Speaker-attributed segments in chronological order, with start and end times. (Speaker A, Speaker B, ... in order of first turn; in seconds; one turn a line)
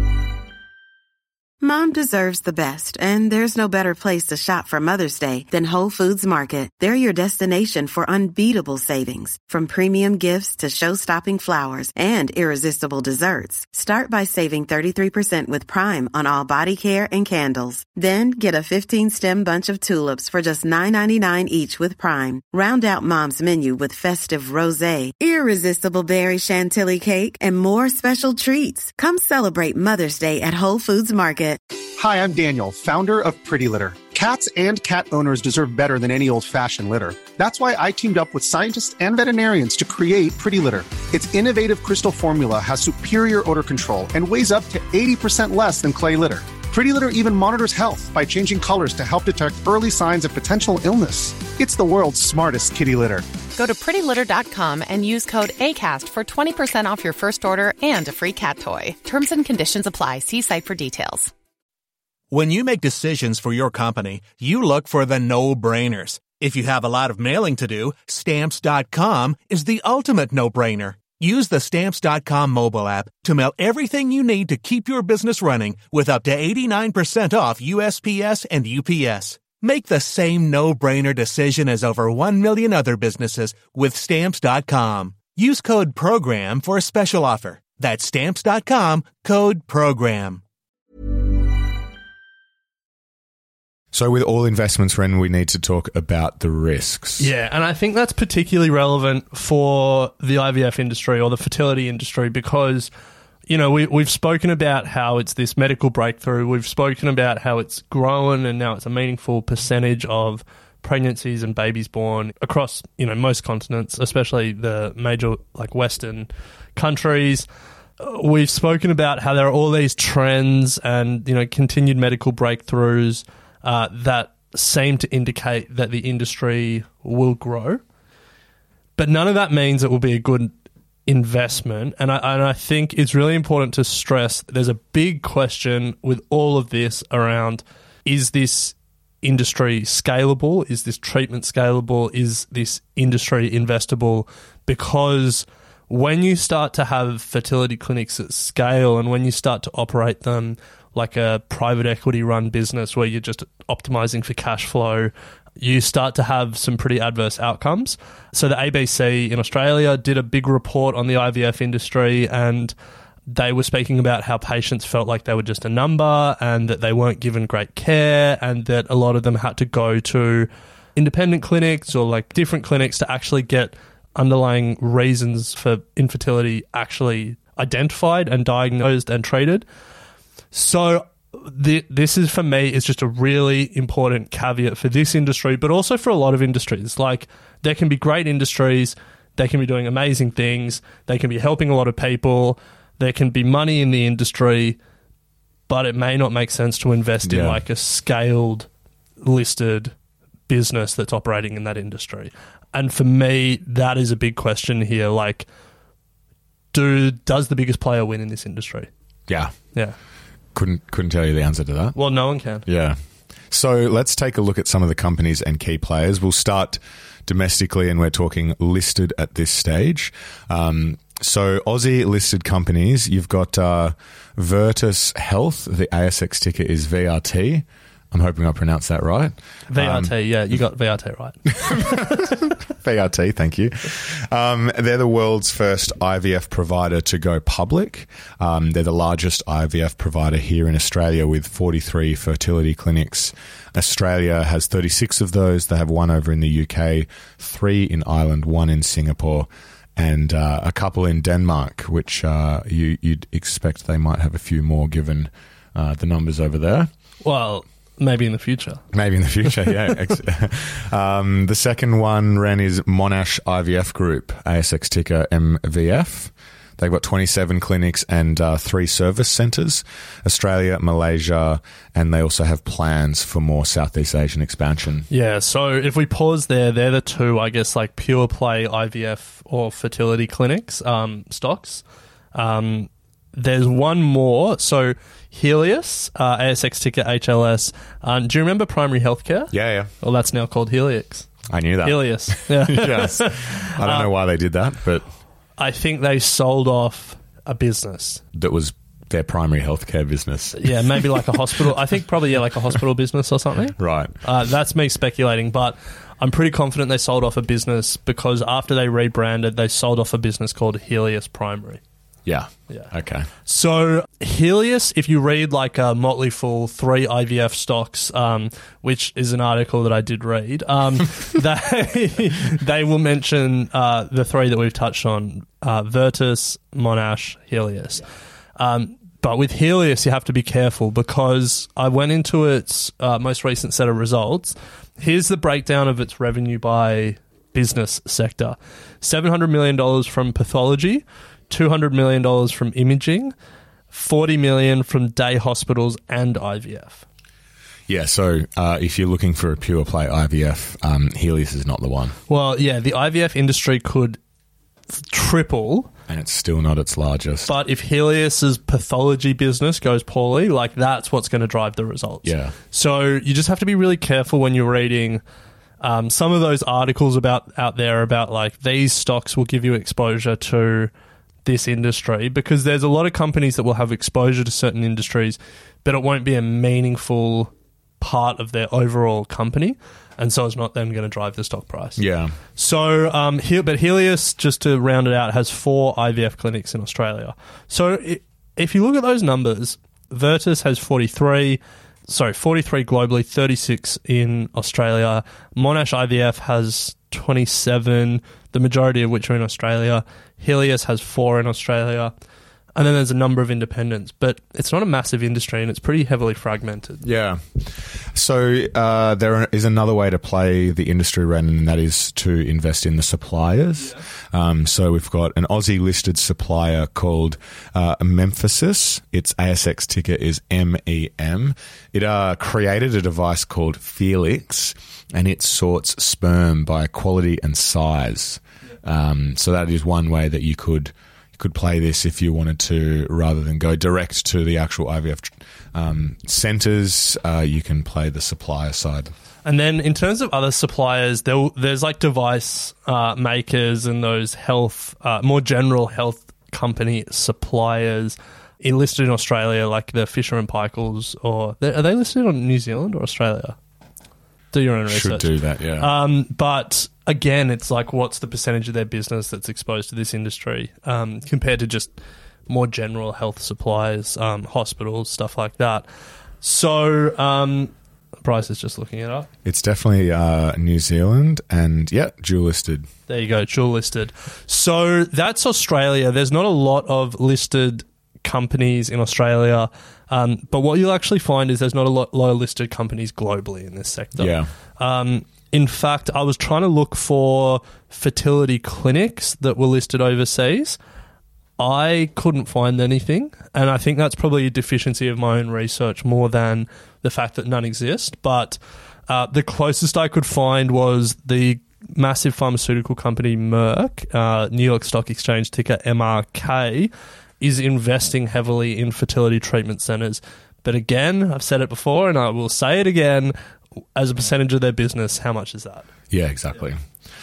Speaker A: 1.6-31.6
Speaker B: 32.0-53.2
Speaker C: 53.5-61.3
Speaker D: 62.3-90.4
Speaker E: 93.9-97.3
Speaker F: 97.2-102.9
Speaker F: 103.5-117.5
Speaker F: 118.0-127.8
Speaker F: 129.0-130.5
Speaker F: 131.1-162.8
Speaker F: 163.3-179.7
Speaker F: 180.5-194.8
Speaker F: 195.7-198.7
Speaker E: 197.2-197.6
Speaker F: 199.2-199.9
Speaker F: 200.5-205.5
Speaker F: 206.7-208.9
Speaker E: 209.3-209.5
Speaker E: 210.5-212.0
Speaker F: 211.9-212.7
Speaker E: 212.6-213.0
Speaker E: 213.5-230.1
Speaker F: 229.7-232.3
Speaker E: 231.6-256.9
Speaker F: 257.2-258.8
Speaker E: 258.9-275.1
Speaker F: 275.1-281.8
Speaker F: 282.3-294.1
Speaker E: 289.5-289.9
Speaker E: 291.5-295.1
Speaker F: 295.6-298.2
Speaker E: 298.3-301.7
Speaker F: 300.6-311.8
Speaker E: 303.8-304.1
Speaker E: 312.2-313.3
Speaker F: 313.4-328.0
Speaker F: 328.6-343.3
Speaker F: 343.9-347.1
Speaker E: 347.9-352.2
Speaker F: 352.3-354.2
Speaker F: 354.9-355.9
Speaker E: 356.1-357.5
Speaker F: 357.5-365.2
Speaker E: 362.2-362.6
Speaker F: 365.8-370.9
Speaker F: 371.4-382.0
Speaker E: 382.0-382.4
Speaker F: 382.6-402.1
Speaker F: 402.8-407.1
Speaker E: 407.0-439.1
Speaker F: 439.4-453.6
Speaker F: 454.5-461.9
Speaker E: 454.9-455.9
Speaker F: 462.5-465.9
Speaker F: 466.4-467.7
Speaker F: 468.2-469.3
Speaker E: 469.4-472.9
Speaker F: 473.1-490.8
Speaker E: 484.2-484.5
Speaker F: 491.6-513.3
Speaker F: 514.0-515.9
Speaker E: 516.1-516.8